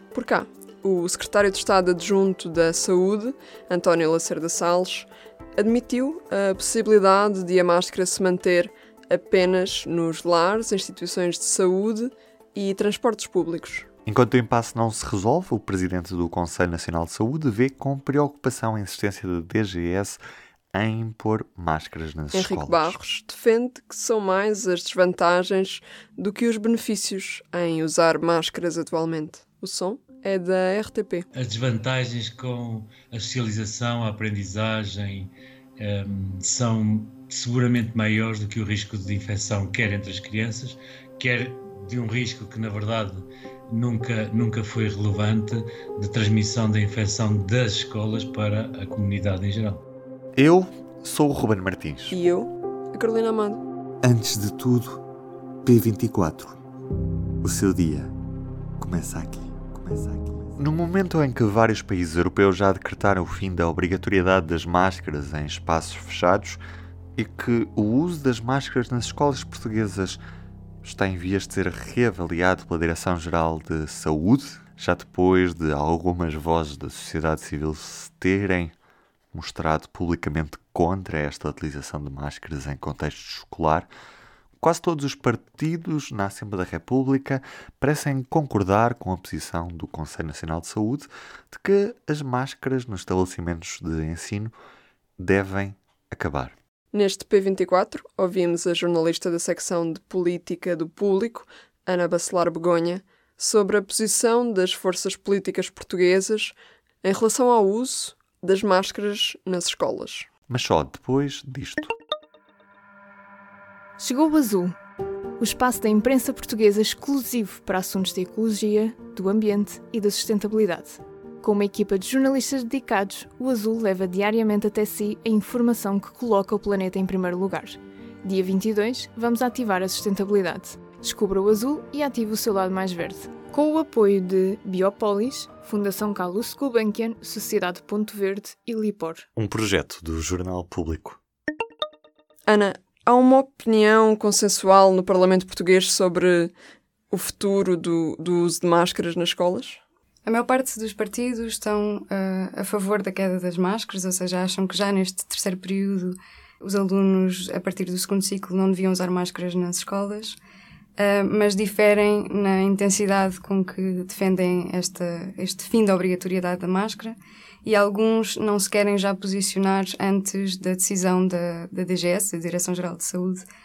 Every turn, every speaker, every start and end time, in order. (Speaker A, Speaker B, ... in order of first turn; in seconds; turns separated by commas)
Speaker A: 0.1-13.9, Speaker B: 14.1-20.2, Speaker B: 20.7-23.0, Speaker A: 22.3-31.2, Speaker C: 31.4-49.8, Speaker B: 50.4-52.2, Speaker A: 52.1-53.6, Speaker B: 54.0-55.0, Speaker B: 55.7-56.6, Speaker B: 57.4-58.1, Speaker B: 58.8-66.6, Speaker B: 67.2-70.2, Speaker B: 70.8-78.7, Speaker B: 79.3-83.9, Speaker B: 84.6-94.5, Speaker B: 95.2-96.6, Speaker A: 96.9-110.3, Speaker B: 110.5-111.9, Speaker D: 114.0-114.8, Speaker D: 115.4-139.3, Speaker B: 139.4-141.2, Speaker A: 142.5-146.6, Speaker A: 147.1-149.8, Speaker E: 150.2-160.4, Speaker E: 161.0-173.4